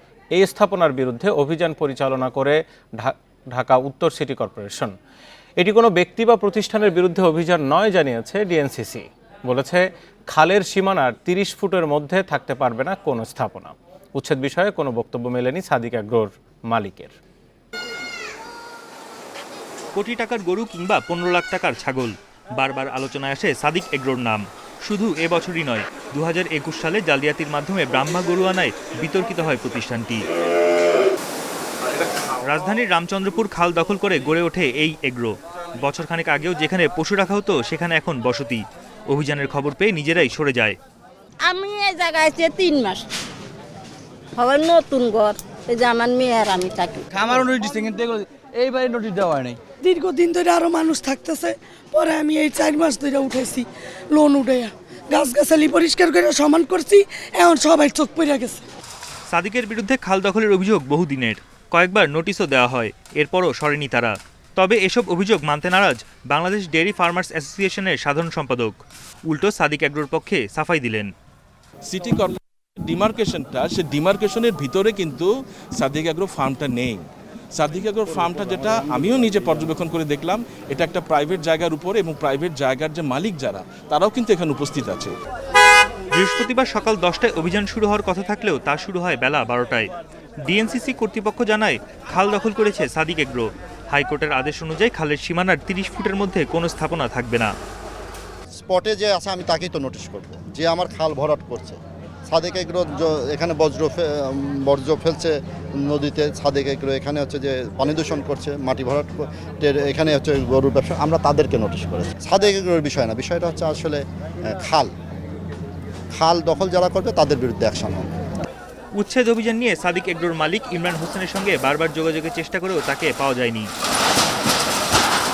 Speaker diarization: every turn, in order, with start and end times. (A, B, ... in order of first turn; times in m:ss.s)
0:00.4-0:05.0 A
0:05.6-0:17.1 A
0:20.0-0:30.2 B
0:32.4-0:40.8 B
0:41.4-0:43.1 C
0:44.4-0:47.0 C
0:47.1-0:49.6 D
0:49.8-0:58.6 E
0:59.3-1:11.1 B
1:11.9-1:25.2 F
1:26.1-1:29.9 B
1:30.5-1:37.5 B
1:38.6-1:41.8 G
1:42.3-1:54.9 G
1:56.1-1:58.1 G
1:59.0-2:03.7 B